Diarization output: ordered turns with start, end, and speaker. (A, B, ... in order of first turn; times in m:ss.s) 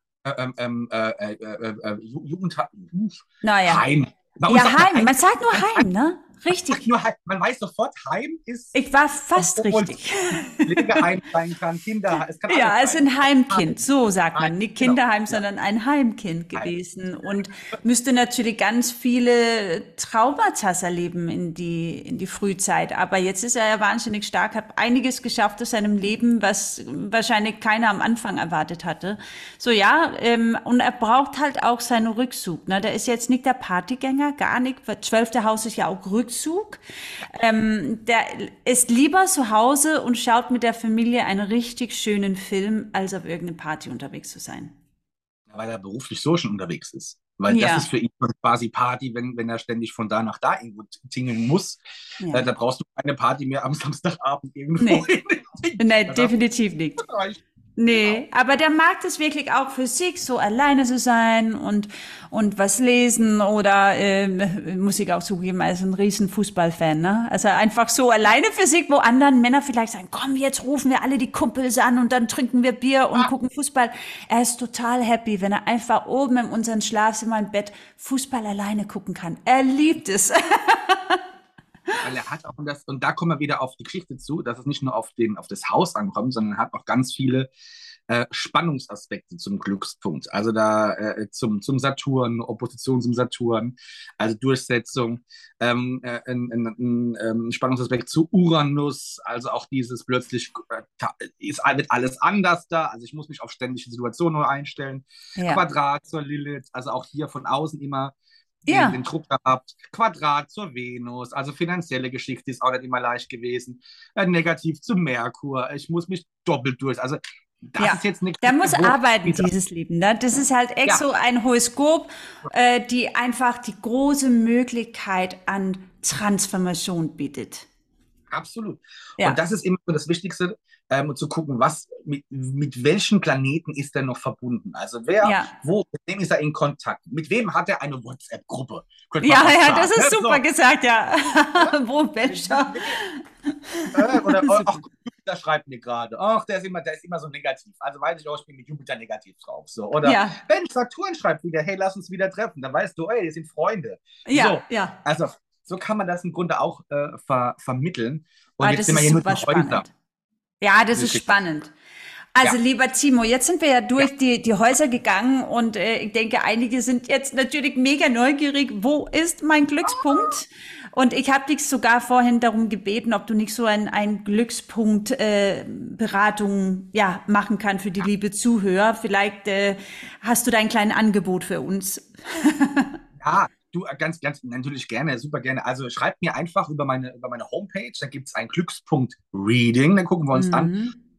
0:00.2-0:05.8 A
0:03.4-0:03.8 B
0:04.5-0:06.8 B
0:06.7-0:08.7 A
0:08.7-0:11.0 B
0:09.4-0:10.0 A
0:10.6-0:13.7 A
0:12.5-0:44.7 B
0:14.3-0:15.4 A
0:45.5-0:56.3 A
0:47.5-0:47.9 B
0:52.2-0:52.5 B
0:54.8-0:55.1 B
0:55.8-0:57.0 B
0:57.0-0:57.4 A
0:57.8-1:21.2 B
1:22.0-1:27.5 A
1:28.1-1:59.5 A
1:45.4-1:45.6 B
1:48.6-1:49.0 B
1:57.8-2:07.7 B
2:08.3-2:20.4 A
2:15.2-2:15.5 B
2:19.2-2:24.8 B
2:21.5-2:23.0 A
2:23.9-2:39.8 A
2:30.0-2:30.4 B
2:34.2-2:35.0 B
2:38.6-2:39.9 B
2:40.6-2:41.7 B
2:40.9-2:41.3 A
2:42.3-3:02.9 B
3:03.2-3:10.7 A
3:10.3-3:11.0 B